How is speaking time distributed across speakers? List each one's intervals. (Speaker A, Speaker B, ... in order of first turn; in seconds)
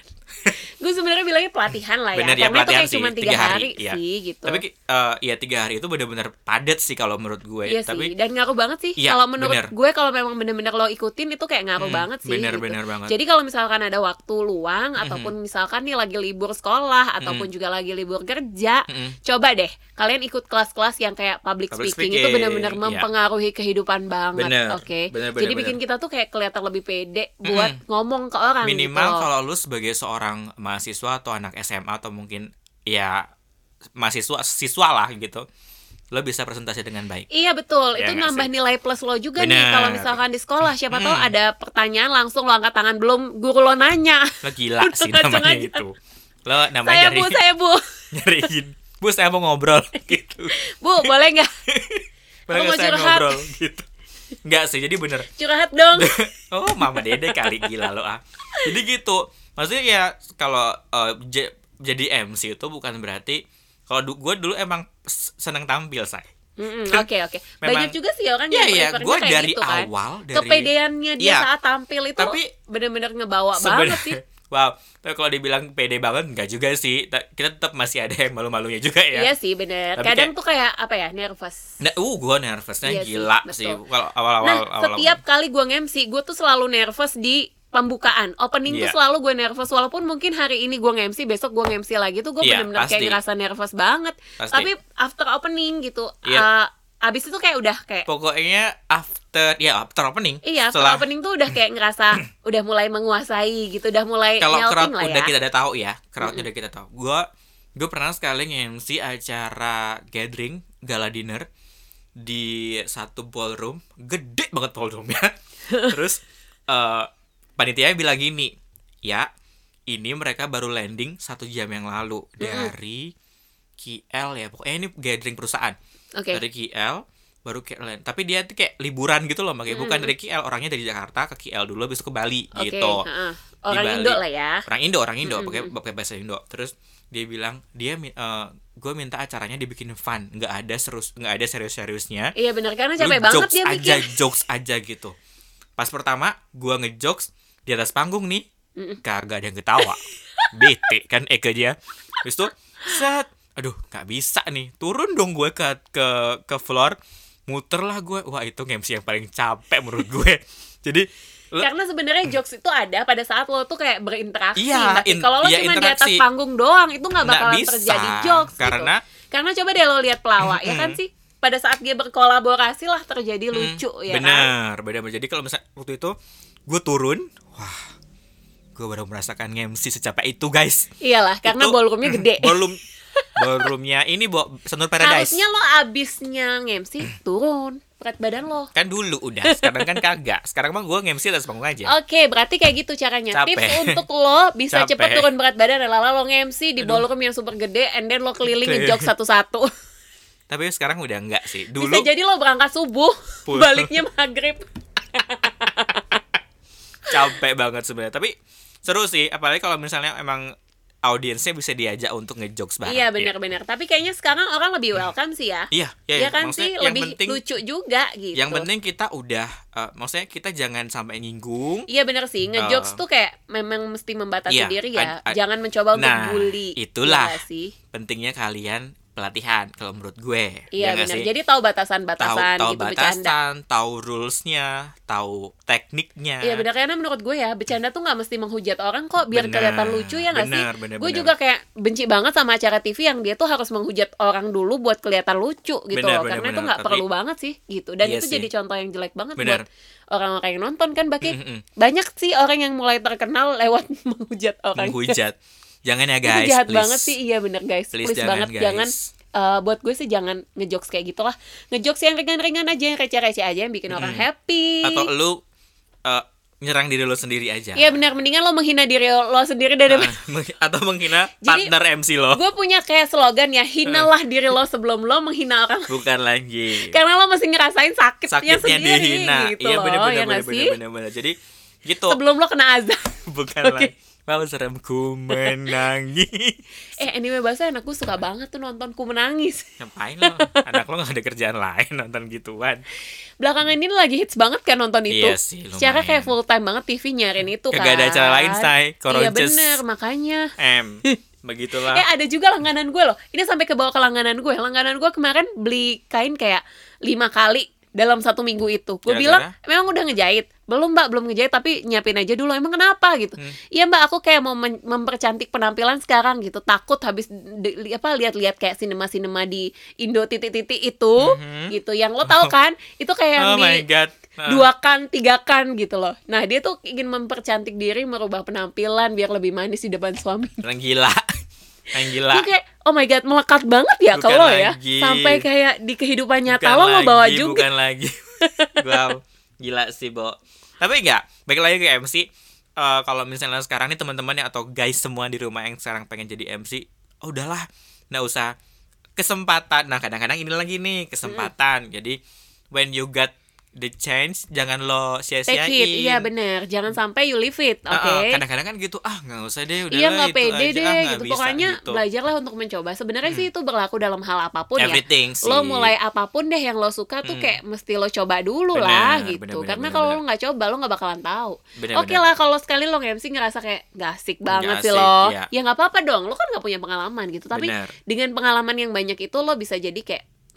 Speaker A: 0.8-4.6, 7.7-29.3, 37.3-45.8, 46.8-47.8, 50.5-51.5, 52.5-53.5, 55.4-56.2, 56.7-57.9, 66.6-74.2, 79.1-81.7, 82.8-83.8, 84.4-98.1, 100.4-105.3, 122.4-122.7, 126.2-126.4, 129.7-130.1, 132.6-134.7, 135.2-135.7, 142.4-144.2, 149.8-150.7, 161.6-174.5, 181.0-182.6, 183.2-183.7, 185.0-188.7, 189.4-190.0, 191.9-199.7, 201.8-206.2, 212.8-218.7, 221.9-227.8, 230.7-233.3, 236.4-255.2, 256.2-265.1, 267.8-270.1, 271.4-271.7, 272.3-276.0, 276.8-280.8, 282.1-283.9, 285.3-285.7, 287.0-289.6, 290.2-290.7, 293.4-300.5, 301.9-323.9, 324.5-330.7, 332.2-337.7, 338.4-339.1, 351.2-351.5, 355.5-358.4, 359.9-380.2
Speaker B: 2.1-8.1, 9.0-9.7, 11.8-13.2, 15.0-15.3, 17.2-17.5, 18.9-19.2, 21.7-23.1, 24.4-25.8, 27.4-27.8, 28.6-33.3, 34.0-35.5, 36.1-37.3, 38.0-38.5, 39.4-40.2, 40.9-41.3, 44.4-47.4, 48.1-51.1, 51.7-53.9, 54.5-55.3, 55.9-66.3, 67.6-67.9, 68.5-71.5, 72.2-72.5, 73.6-79.3, 80.0-80.3, 81.8-85.2, 88.7-89.0, 92.4-93.2, 94.4-94.7, 98.1-101.1, 104.4-111.5, 112.2-118.5, 119.9-123.1, 123.8-125.8, 126.3-133.1, 133.7-142.3, 143.0-145.1, 145.8-148.4, 149.0-157.0, 157.5-161.7, 164.6-166.2, 167.2-169.0, 170.4-171.0, 173.5-176.2, 176.7-177.9, 178.8-180.9, 181.4-182.8, 183.4-185.4, 188.8-191.9, 193.3-194.0, 194.7-195.3, 196.8-197.1, 198.4-199.1, 200.5-202.1, 203.5-204.0, 207.1-208.3, 208.8-210.5, 211.0-213.3, 215.7-217.4, 218.3-221.9, 222.5-223.0, 224.5-225.4, 225.9-227.4, 227.9-231.3, 232.2-236.7, 239.3-241.3, 245.9-247.0, 248.0-248.5, 249.4-249.6, 251.2-251.6, 254.8-257.1, 257.9-259.1, 263.9-264.3, 264.8-265.4, 266.1-268.0, 269.9-272.4, 273.9-274.1, 275.9-277.0, 278.3-282.2, 283.3-286.6, 289.8-292.8, 295.1-296.3, 297.7-299.8, 300.6-302.1, 309.1-309.5, 321.2-321.7, 322.2-322.5, 323.4-324.7, 330.6-331.2, 331.9-332.5, 334.1-335.4, 336.5-338.1, 338.8-342.3, 342.8-348.5, 349.2-352.2, 352.7-356.3, 357.9-362.0, 364.8-365.9, 367.2-367.6, 368.8-370.2, 371.8-372.2, 374.5-375.5, 377.5-377.9